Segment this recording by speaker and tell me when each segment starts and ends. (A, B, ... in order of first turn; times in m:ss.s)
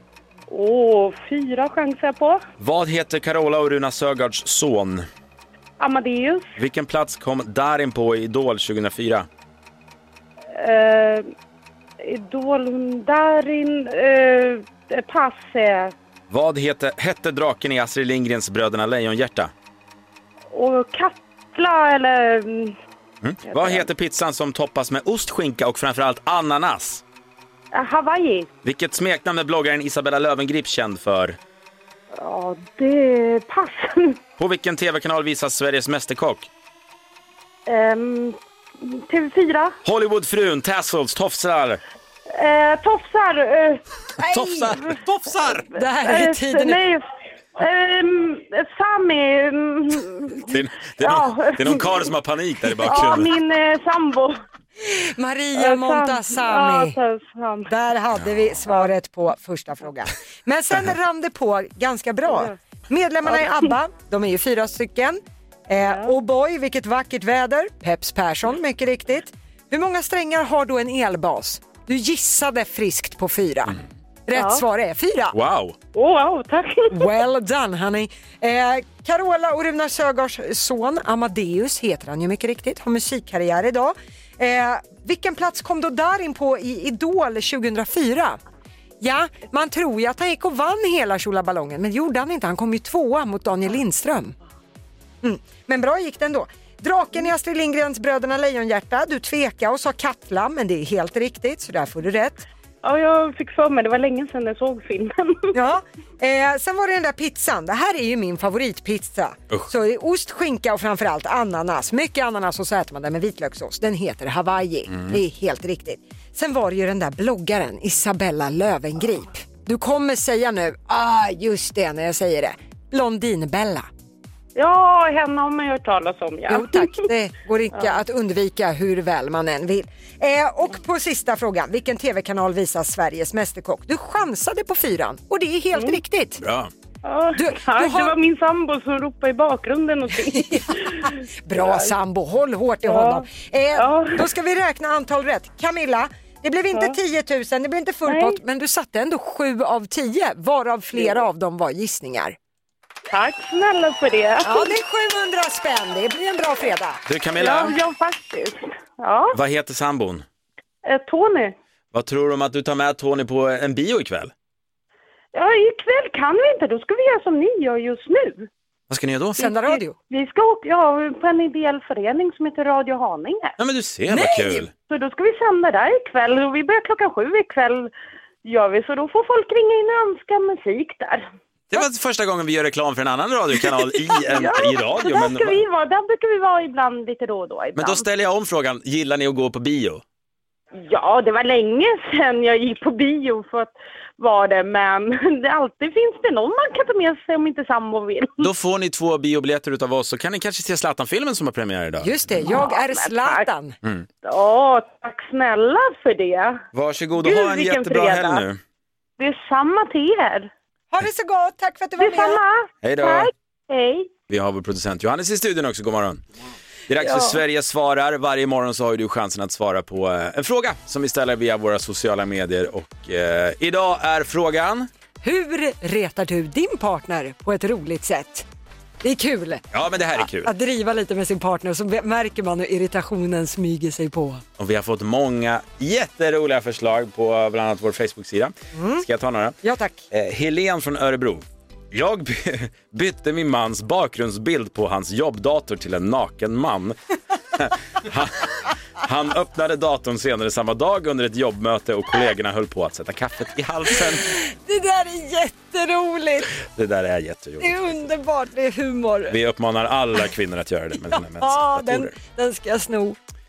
0:00.5-0:02.4 A
0:02.6-0:05.0 B
0:05.8-0:06.5 A
0:06.6-0:09.3 B
0:10.5-0:11.3 A
0:12.0-0:15.9 A
0:16.3-0:19.5 B
0:20.5-0:22.7 A
0:23.2-0:27.0 B
0:23.4-0:23.9 A
0:27.7-0:28.5 A
0:28.6-0:31.4 B
0:32.1-0:34.2 A
0:34.4-0:36.5 B
0:37.7-0:39.8 A
0:39.8-0:41.8 B
0:42.3-0:43.8 A
0:44.2-0:44.7 C
0:44.2-0:45.7 B
0:45.7-0:46.8 C
0:45.7-0:47.0 A
0:47.6-0:50.4 A
0:50.5-0:53.3 B
0:51.0-0:52.0 A
0:52.7-0:54.4 A
0:54.8-0:57.0 C
0:55.5-0:57.7 A
0:57.7-1:13.8 C
1:02.3-1:02.6 A
1:03.3-1:03.7 A
1:05.8-1:06.2 A
1:14.3-1:15.3 C
1:14.3-1:14.6 A
1:15.3-1:15.7 B
1:15.9-1:17.1 A
1:16.9-1:28.4 C
1:29.0-1:34.4 C
1:35.2-1:42.4 C
1:42.8-1:45.5 A
1:45.5-2:03.9 C
1:54.9-1:55.2 B
2:04.6-2:07.0 A
2:06.5-2:16.4 C
2:15.7-2:16.0 A
2:16.4-2:16.7 B
2:17.0-2:21.9 A
2:17.3-2:18.2 C
2:20.2-2:32.4 C
2:22.8-2:24.3 A
2:28.0-2:28.4 A
2:30.9-2:31.2 A
2:33.1-2:34.7 A
2:34.4-2:37.0 C
2:37.1-2:37.8 B
2:37.4-2:39.4 A
2:39.3-2:40.2 B
2:40.8-2:41.5 A
2:41.9-2:44.3 B
2:45.3-2:48.5 A
2:48.9-2:49.4 B
2:49.4-2:50.0 C
2:49.4-2:53.5 A
2:53.6-2:54.7 B
2:54.1-2:54.6 C
2:54.8-2:57.9 A
2:58.4-3:01.2 A
3:01.7-3:05.6 B
3:04.2-3:08.0 A
3:07.7-3:10.0 B
3:10.8-3:18.5 A
3:18.4-3:22.2 B
3:22.0-3:23.7 C
3:22.4-3:23.5 A
3:24.2-3:26.6 A
3:26.7-3:28.6 B
3:27.2-3:28.4 A
3:29.2-3:30.5 A
3:30.9-3:32.4 C
3:32.0-3:34.1 A
3:32.8-3:33.3 B
3:34.3-3:36.2 B
3:36.9-3:44.9 B
3:37.0-3:37.4 A
3:45.2-3:48.4 C
3:49.0-3:49.6 C
3:49.7-3:50.5 B
3:50.3-3:54.4 C
3:54.6-3:59.6 B
3:58.7-3:59.0 C
3:59.6-4:00.0 C
4:00.1-4:07.0 B
4:07.5-4:14.2 B
4:14.2-4:16.5 C
4:16.6-4:18.0 B
4:17.6-4:19.4 C
4:19.3-4:22.1 B
4:21.1-4:23.2 C